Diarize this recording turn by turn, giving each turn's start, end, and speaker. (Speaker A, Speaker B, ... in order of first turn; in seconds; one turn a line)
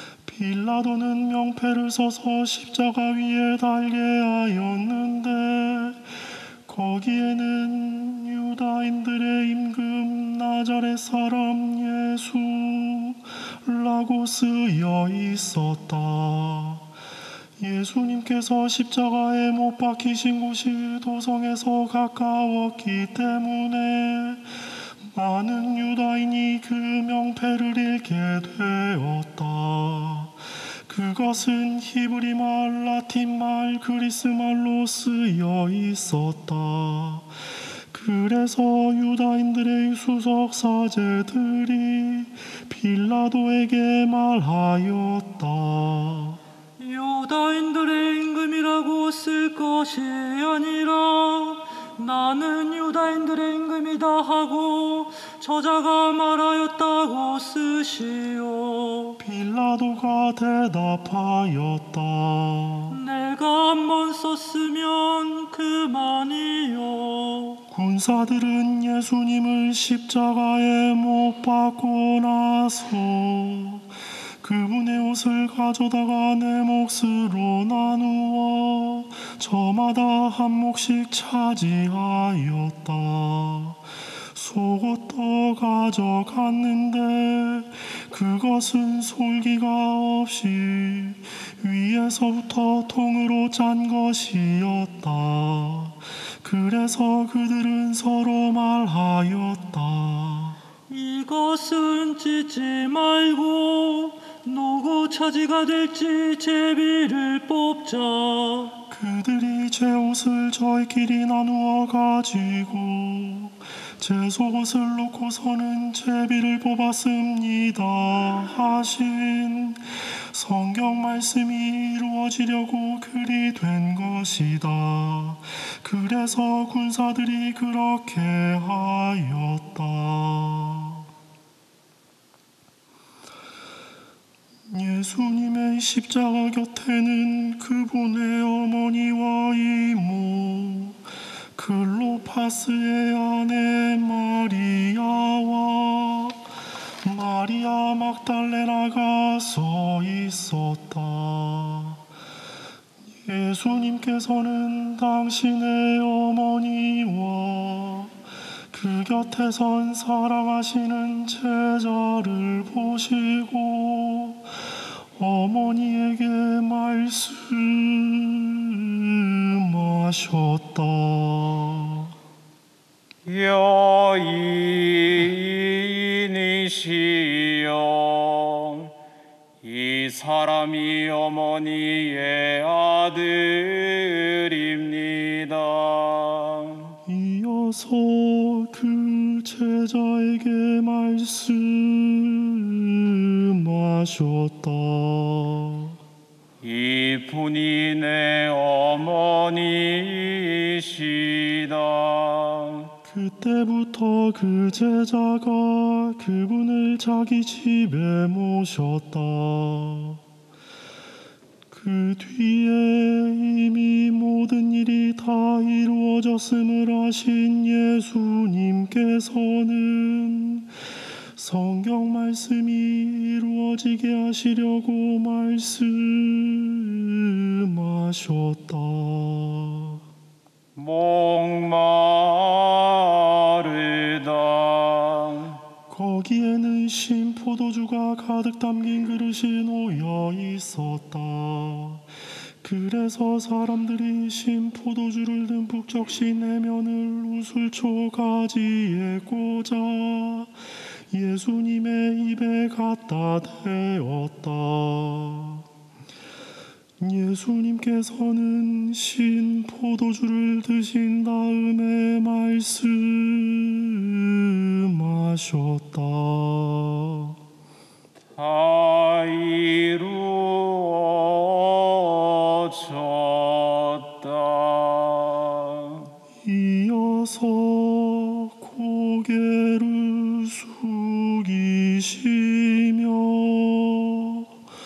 Speaker A: 0.2-6.1
Speaker A: 6.7-16.9
Speaker A: 17.6-24.5
Speaker A: 25.0-37.4
Speaker A: 37.9-46.4
Speaker B: 46.8-59.2
Speaker A: 59.2-63.0
Speaker B: 62.9-67.6
Speaker A: 67.7-100.6
Speaker B: 100.9-108.8
Speaker A: 108.9-131.1
Speaker A: 134.7-141.0
Speaker A: 141.6-146.4
Speaker A: 147.0-152.1
Speaker A: 153.2-158.2
Speaker A: 158.7-172.1
Speaker C: 173.2-178.9
Speaker C: 179.6-187.0
Speaker A: 187.1-196.0
Speaker C: 196.6-202.9
Speaker A: 203.1-210.2
Speaker A: 211.7-220.8
Speaker A: 221.3-230.0
Speaker C: 230.8-235.6
Speaker A: 235.9-242.1
Speaker A: 242.6-250.6
Speaker A: 251.1-255.7
Speaker A: 257.0-267.4
Speaker C: 268.4-276.1
Speaker A: 276.4-284.6